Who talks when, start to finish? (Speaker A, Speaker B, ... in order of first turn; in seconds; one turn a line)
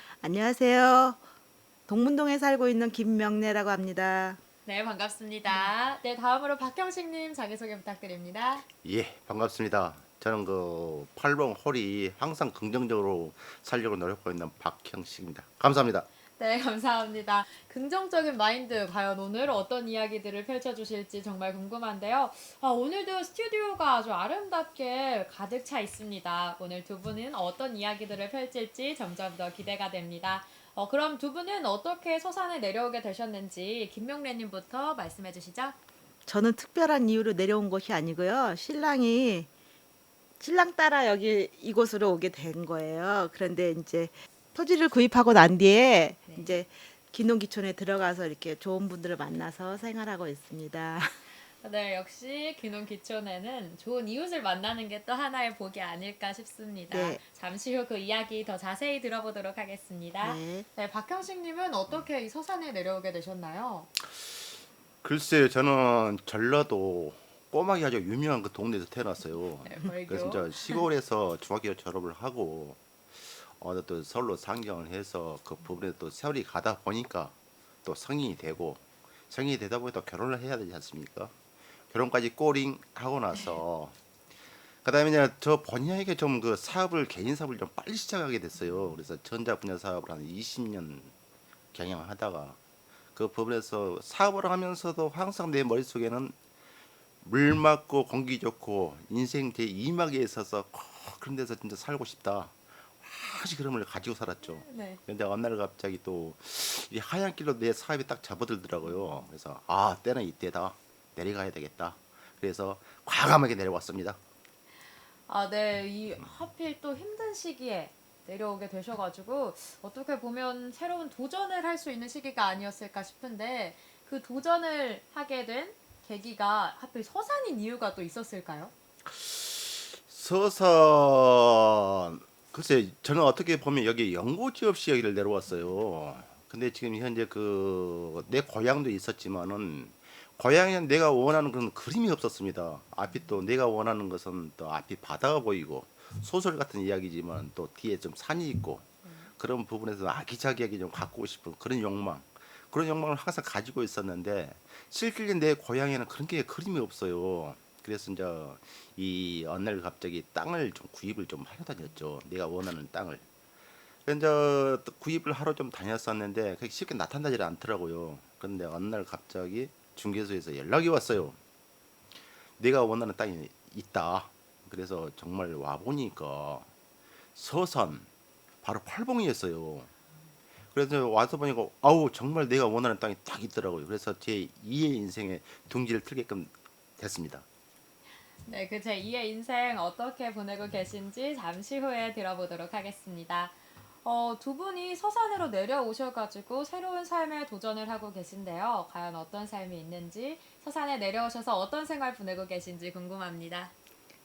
Speaker A: 0.2-1.2
Speaker A: 1.9-4.4
Speaker B: 4.7-8.7
Speaker C: 8.8-16.1
Speaker B: 16.4-35.8
Speaker A: 36.2-39.5
Speaker A: 40.4-51.1
Speaker B: 46.3-46.5
Speaker B: 51.6-63.9
Speaker A: 56.9-57.2
Speaker A: 60.2-60.7
Speaker C: 65.0-81.3
Speaker B: 69.6-70.5
Speaker C: 81.9-83.9
Speaker C: 84.8-91.1
Speaker C: 91.7-92.6
Speaker C: 93.1-96.3
Speaker C: 97.2-114.2
Speaker B: 104.6-105.0
Speaker B: 115.3-128.7
Speaker C: 129.1-148.9
Speaker C: 149.4-163.2
Speaker C: 164.1-171.4
Speaker C: 172.6-176.7
Speaker C: 177.3-178.1
Speaker C: 178.6-179.9
Speaker C: 180.7-187.4
Speaker B: 188.4-203.7